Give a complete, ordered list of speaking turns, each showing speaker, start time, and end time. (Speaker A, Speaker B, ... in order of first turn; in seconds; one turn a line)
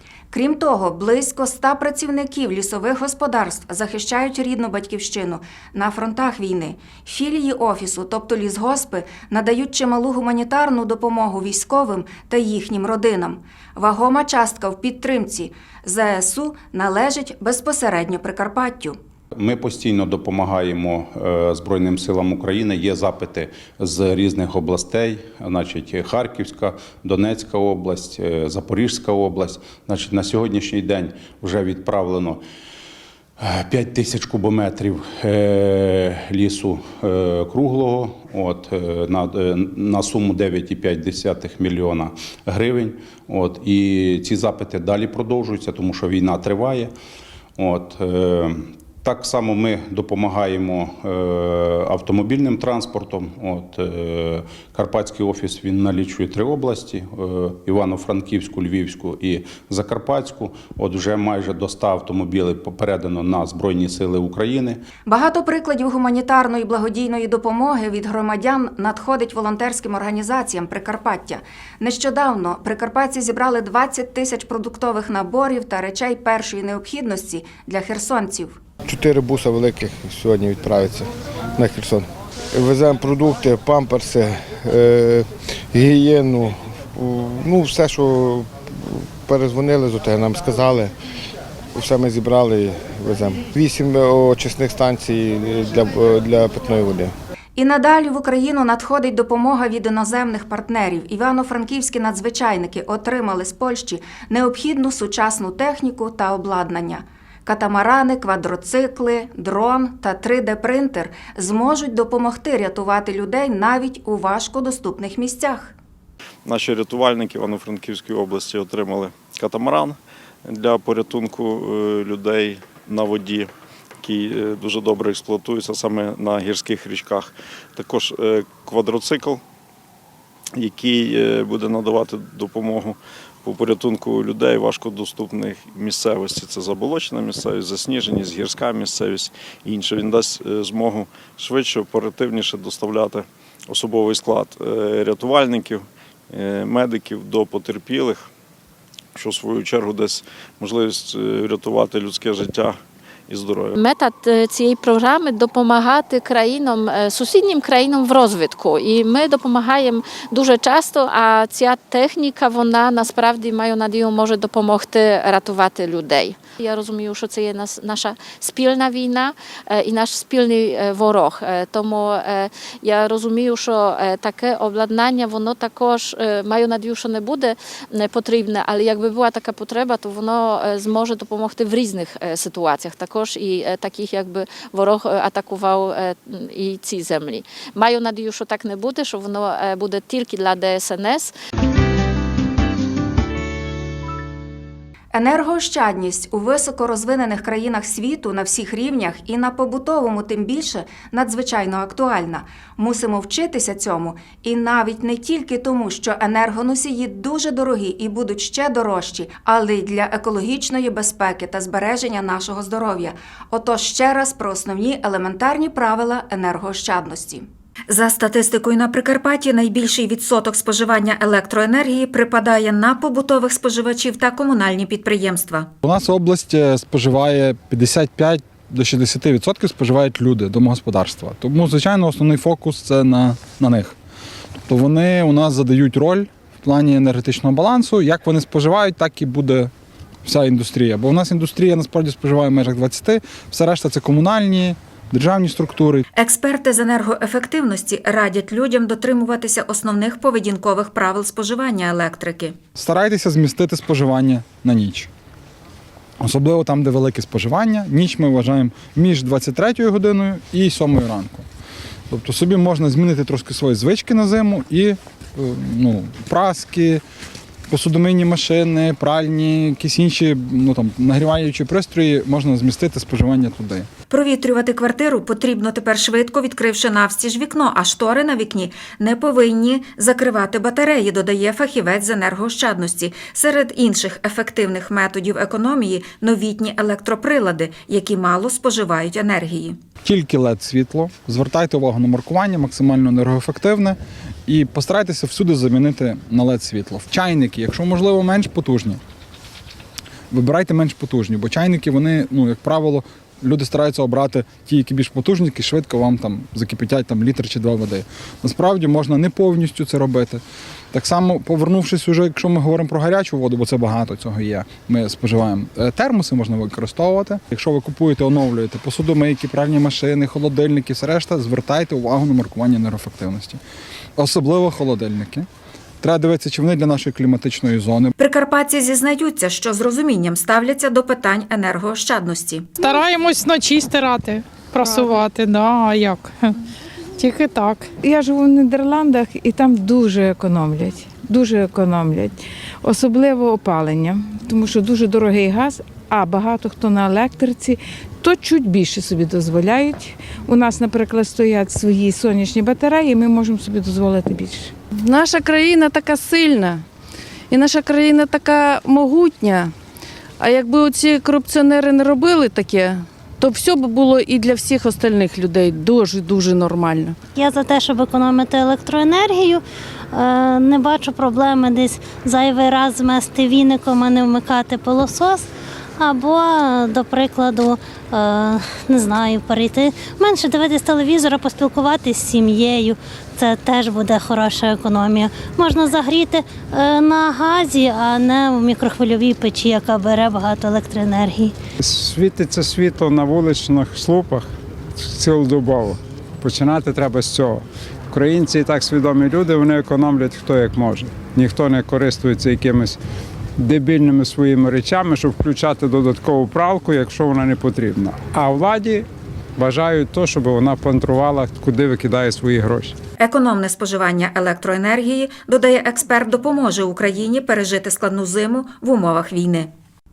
Speaker A: 0.3-18.9
Speaker B: 19.4-32.4
Speaker B: 33.4-46.9
Speaker B: 47.6-64.8
Speaker A: 65.0-78.5
Speaker C: 78.9-81.0
Speaker C: 81.6-82.0
Speaker C: 82.6-88.5
Speaker C: 89.3-90.9
Speaker C: 91.8-97.1
Speaker A: 97.5-115.7
Speaker D: 116.4-123.5
Speaker D: 124.0-129.4
Speaker D: 130.6-148.3
Speaker D: 149.1-153.8
Speaker E: 153.8-191.3
Speaker A: 195.1-225.7
Speaker F: 225.8-233.9
Speaker F: 234.7-239.7
Speaker F: 240.2-246.0
Speaker A: 246.1-252.6
Speaker F: 252.8-255.1
Speaker F: 256.2-261.4
Speaker F: 262.1-267.0
Speaker F: 267.7-273.9
Speaker A: 274.1-289.8
Speaker F: 290.0-299.0
Speaker F: 300.3-323.6
Speaker F: 324.2-325.4
Speaker F: 326.0-328.1
Speaker A: 328.2-332.7
Speaker G: 332.8-336.6
Speaker G: 337.2-337.9
Speaker H: 338.0-354.7
Speaker I: 354.9-356.8
Speaker I: 357.5-359.7
Speaker I: 360.4-367.1
Speaker J: 367.4-369.6
Speaker J: 370.1-375.4
Speaker J: 376.0-391.5
Speaker K: 391.8-403.0
Speaker K: 403.6-409.0
Speaker K: 409.6-412.9
Speaker A: 413.2-419.7